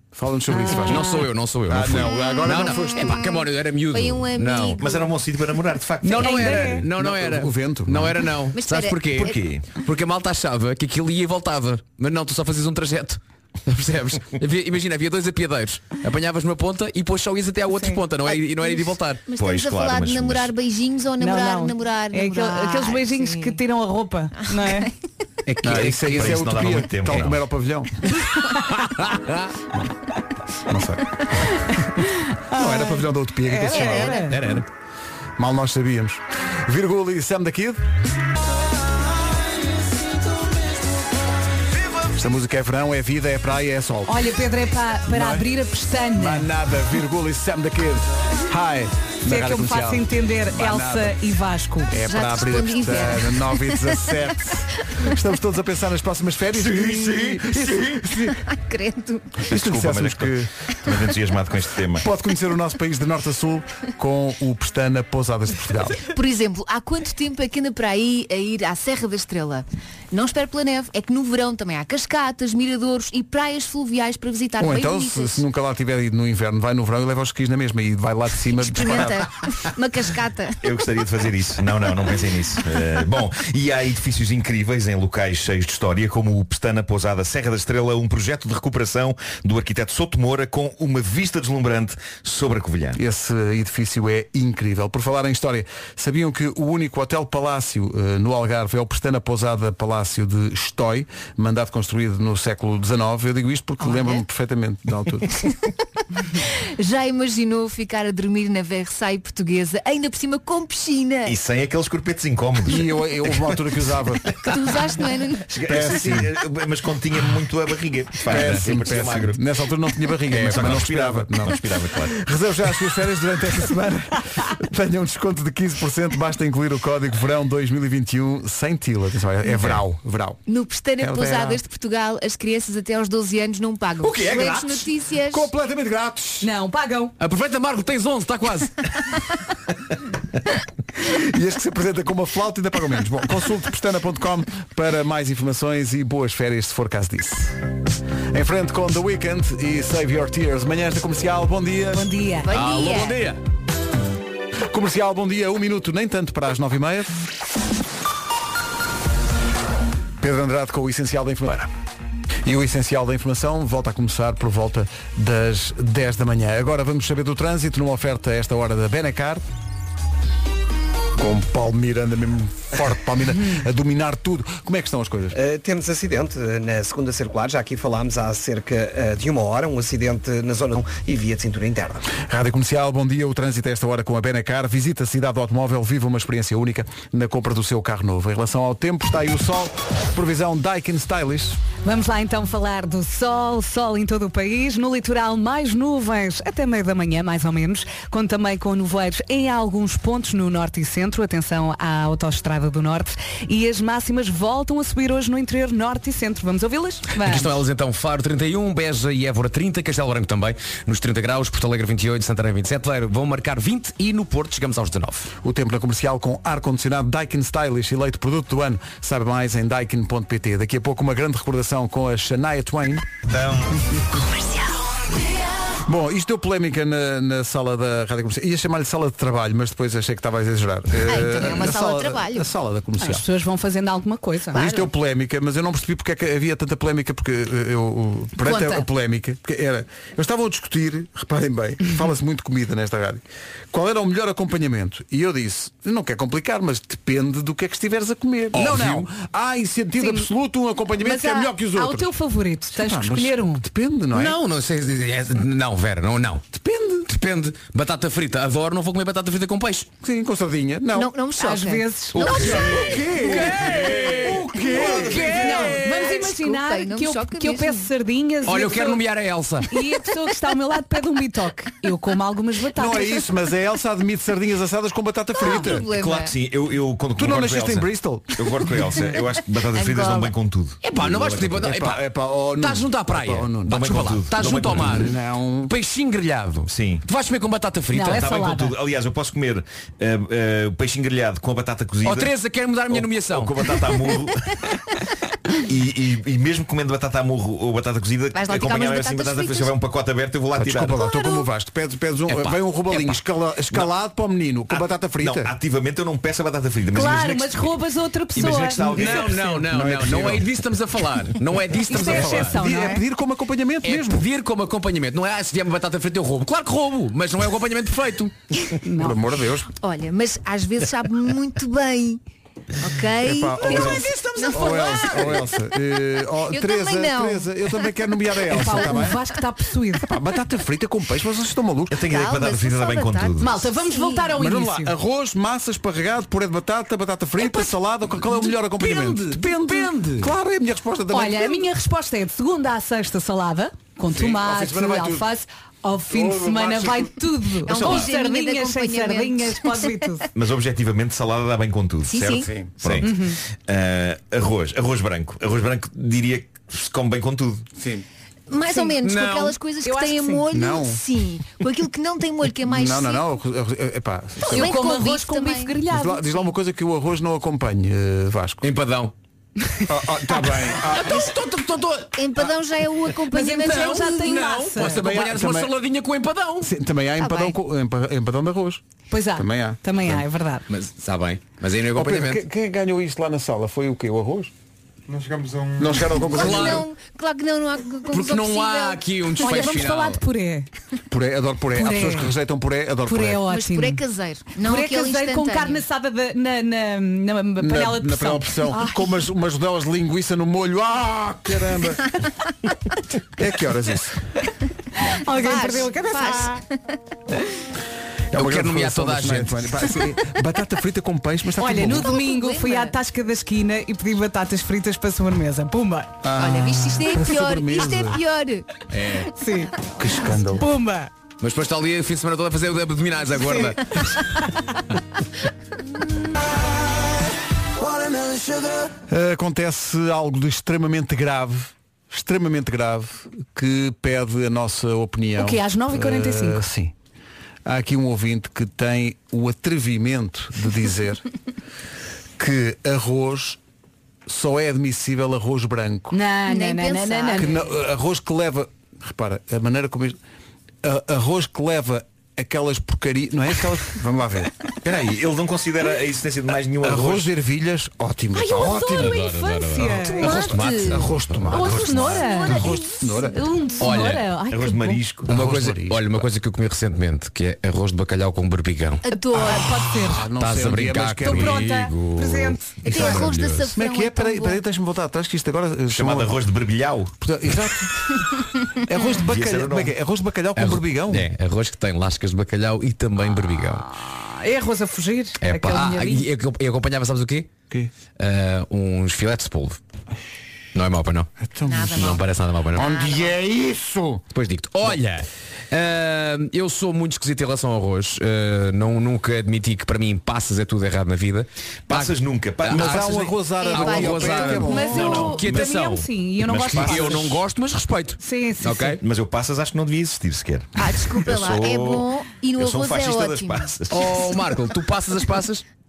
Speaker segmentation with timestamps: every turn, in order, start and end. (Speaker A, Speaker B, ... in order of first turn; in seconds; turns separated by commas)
Speaker A: 0.1-3.3, Speaker B: 0.7-4.8, Speaker C: 2.1-3.4, Speaker C: 3.9-5.1, Speaker D: 4.8-6.8, Speaker B: 6.0-19.2, Speaker E: 6.2-6.8, Speaker A: 6.7-8.2, Speaker C: 8.5-9.4, Speaker D: 9.1-9.7, Speaker C: 18.2-23.6, Speaker D: 19.4-20.5, Speaker E: 21.2-24.9, Speaker C: 24.5-24.9, Speaker A: 25.5-28.1, Speaker B: 25.6-26.4, Speaker D: 25.7-27.4, Speaker B: 28.7-29.5, Speaker A: 30.7-31.2, Speaker E: 32.5-34.4, Speaker A: 32.5-34.6, Speaker C: 33.7-34.2, Speaker B: 34.3-34.6, Speaker A: 35.4-37.8, Speaker A: 42.1-44.3, Speaker E: 44.1-46.5, Speaker A: 45.1-45.5, Speaker A: 46.2-51.2, Speaker E: 49.3-51.9, Speaker A: 51.9-58.4, Speaker C: 52.0-54.0, Speaker D: 56.5-58.0, Speaker C: 58.2-59.5, Speaker A: 59.5-60.5, Speaker D: 59.5-62.1, Speaker A: 62.0-66.0, Speaker C: 66.0-75.4, Speaker A: 74.6-79.3, Speaker C: 78.5-80.7, Speaker D: 80.6-93.0, Speaker A: 93.0-105.3, Speaker C: 103.8-104.2, Speaker C: 106.3-111.4, Speaker D: 111.3-113.6, Speaker A: 112.7-114.3, Speaker C: 114.4-115.5, Speaker D: 115.5-119.4, Speaker A: 115.7-116.3, Speaker A: 118.2-130.4, Speaker B: 118.3-118.7, Speaker B: 120.3-121.0, Speaker D: 120.3-122.2, Speaker C: 130.5-135.5, Speaker A: 131.0-131.6, Speaker D: 134.0-134.8, Speaker A: 134.2-136.5, Speaker E: 136.4-137.1, Speaker B: 137.2-138.8, Speaker A: 141.0-147.6, Speaker A: 148.3-152.1, Speaker E: 151.9-152.5, Speaker C: 152.4-153.2, Speaker B: 152.5-153.4, Speaker A: 154.7-157.3, Speaker A: 160.2-161.7, Speaker A: 162.4-169.4, Speaker A: 171.2-175.4, Speaker F: 175.3-182.1, Speaker A: 182.1-191.6, Speaker E: 191.8-207.6, Speaker B: 207.2-215.3, Speaker A: 215.4-223.1, Speaker D: 223.3-223.7, Speaker A: 225.8-233.3, Speaker C: 231.0-232.5, Speaker E: 233.0-234.6, Speaker A: 234.5-252.1, Speaker C: 234.6-234.9, Speaker B: 248.5-249.1, Speaker E: 250.0-250.3, Speaker E: 251.0-253.6, Speaker A: 252.7-254.4, Speaker B: 254.1-256.4, Speaker A: 256.5-257.1, Speaker B: 257.1-259.9, Speaker A: 260.0-261.1, Speaker C: 260.9-264.0, Speaker E: 261.4-262.5, Speaker D: 262.2-262.7, Speaker A: 262.2-265.8, Speaker B: 262.5-265.9, Speaker E: 265.0-269.0, Speaker C: 265.2-267.9, Speaker B: 268.4-269.8, Speaker E: 269.7-273.3, Speaker A: 272.7-275.9, Speaker C: 275.4-276.4, Speaker D: 275.5-281.6, Speaker A: 277.1-278.6, Speaker C: 278.9-280.4, Speaker B: 280.8-282.0, Speaker A: 281.5-285.7, Speaker B: 282.6-288.6, Speaker D: 283.7-285.0, Speaker D: 286.7-287.0, Speaker E: 287.9-288.8, Speaker D: 288.1-292.3, Speaker B: 292.0-293.7, Speaker D: 292.9-294.4, Speaker D: 295.7-301.1, Speaker C: 298.3-299.8, Speaker A: 300.6-305.5, Speaker B: 302.3-303.2, Speaker D: 304.7-307.8, Speaker E: 306.9-309.1, Speaker D: 308.4-309.6, Speaker B: 308.8-312.6, Speaker A: 309.1-310.5, Speaker E: 311.9-313.0, Speaker A: 311.9-314.2, Speaker B: 313.8-318.3, Speaker E: 318.9-319.2, Speaker A: 319.0-319.7, Speaker C: 319.8-322.2, Speaker C: 322.8-325.5, Speaker A: 323.2-329.2, Speaker C: 326.5-327.5, Speaker E: 328.5-330.1, Speaker A: 330.0-332.0, Speaker D: 331.9-333.5, Speaker C: 331.9-334.4, Speaker E: 333.4-334.9, Speaker A: 334.4-341.7, Speaker B: 338.3-340.3, Speaker E: 341.1-350.3, Speaker A: 344.1-345.3, Speaker A: 346.1-347.3, Speaker C: 347.7-349.9, Speaker D: 347.7-348.0, Speaker D: 350.4-357.7, Speaker C: 352.0-352.5, Speaker A: 352.4-352.9, Speaker E: 353.0-353.4, Speaker A: 357.8-358.1, Speaker C: 358.5-363.2, Speaker E: 358.6-359.0, Speaker B: 359.0-359.6, Speaker E: 359.8-360.4, Speaker A: 360.5-361.0, Speaker A: 362.7-364.7, Speaker E: 364.4-366.4, Speaker C: 364.5-365.7, Speaker A: 365.9-368.7, Speaker B: 368.6-369.1, Speaker A: 369.9-371.3, Speaker B: 370.6-372.5, Speaker C: 372.2-374.6, Speaker E: 373.3-375.1, Speaker B: 373.6-376.7, Speaker A: 374.8-375.7, Speaker A: 376.6-378.8, Speaker C: 377.2-377.6, Speaker E: 379.1-380.6, Speaker A: 379.4-380.2, Speaker B: 380.7-382.4, Speaker A: 381.9-384.5, Speaker A: 385.8-386.9, Speaker B: 386.2-386.9, Speaker C: 386.3-389.6, Speaker B: 388.1-390.2, Speaker E: 389.4-390.7, Speaker A: 391.1-393.5, Speaker E: 391.8-392.3, Speaker E: 393.1-394.0, Speaker C: 393.5-395.8, Speaker E: 394.6-399.1, Speaker A: 397.6-402.1, Speaker A: 403.4-404.2, Speaker E: 405.1-406.6, Speaker C: 405.3-406.6, Speaker A: 408.3-412.1, Speaker B: 408.3-409.9, Speaker E: 411.6-416.2, Speaker C: 411.9-412.9, Speaker A: 416.2-418.2, Speaker C: 416.4-418.7, Speaker B: 418.9-419.3, Speaker E: 419.4-419.8, Speaker A: 420.0-420.7, Speaker E: 420.5-421.1, Speaker B: 421.4-424.1, Speaker E: 423.4-423.8, Speaker A: 429.1-436.9, Speaker E: 435.4-436.6, Speaker A: 437.6-441.2, Speaker A: 442.4-443.6, Speaker A: 444.3-446.2, Speaker E: 446.1-447.6, Speaker C: 446.5-447.5, Speaker A: 447.4-450.2, Speaker A: 450.8-454.5, Speaker D: 454.8-457.3, Speaker A: 456.8-459.2, Speaker E: 458.3-460.5, Speaker B: 458.7-462.1, Speaker A: 460.2-463.5, Speaker C: 460.2-461.1, Speaker E: 461.5-465.1, Speaker C: 462.3-462.7, Speaker B: 463.8-464.3, Speaker D: 464.5-465.3, Speaker B: 465.2-469.1, Speaker A: 465.3-466.3, Speaker C: 469.1-470.0, Speaker E: 469.3-470.3, Speaker A: 469.9-471.7, Speaker B: 470.2-473.7, Speaker E: 471.2-472.7, Speaker C: 472.8-474.6, Speaker A: 472.8-476.4, Speaker D: 475.9-477.1, Speaker A: 477.2-478.2, Speaker A: 478.9-481.3, Speaker D: 479.2-479.9, Speaker B: 480.6-483.9, Speaker E: 483.9-486.3, Speaker B: 485.4-487.5, Speaker B: 488.2-489.8, Speaker B: 490.8-491.3, Speaker A: 491.4-492.1, Speaker C: 491.7-493.4, Speaker B: 491.9-492.9, Speaker A: 492.7-494.2, Speaker B: 494.3-509.0, Speaker D: 501.9-503.2, Speaker A: 502.7-505.4, Speaker C: 503.6-505.0, Speaker E: 504.5-507.3, Speaker D: 505.0-505.7, Speaker D: 506.4-507.4, Speaker E: 508.2-509.0, Speaker D: 509.0-514.2, Speaker C: 510.8-514.2, Speaker B: 513.9-515.6